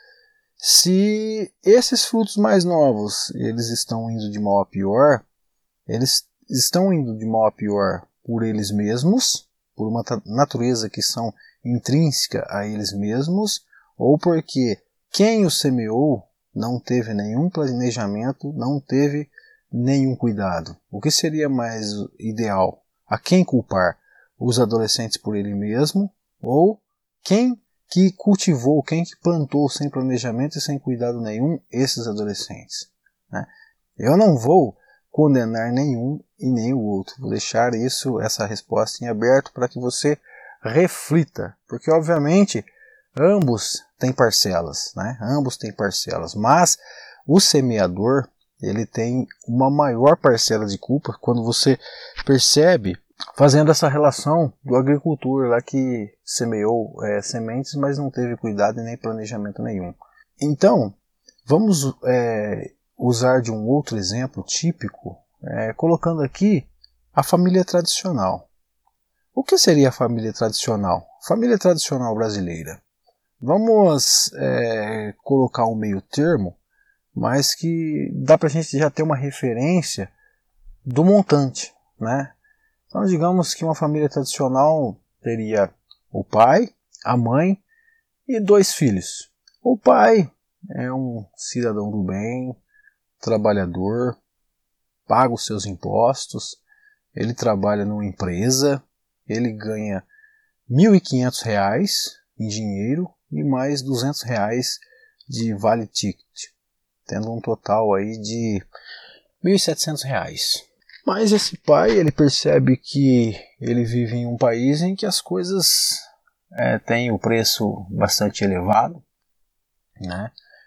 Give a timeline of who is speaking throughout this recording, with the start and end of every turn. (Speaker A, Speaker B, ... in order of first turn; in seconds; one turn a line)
Speaker A: 0.6-5.2
Speaker A: 5.9-68.5
Speaker A: 69.3-72.8
Speaker A: 73.4-76.6
Speaker A: 77.2-80.1
Speaker A: 80.9-82.3
Speaker A: 82.9-87.6
Speaker A: 88.3-92.6
Speaker A: 93.2-94.2
Speaker A: 95.1-96.6
Speaker A: 97.2-100.1
Speaker A: 100.7-106.5
Speaker A: 107.1-108.6
Speaker A: 109.4-119.0
Speaker A: 120.0-120.3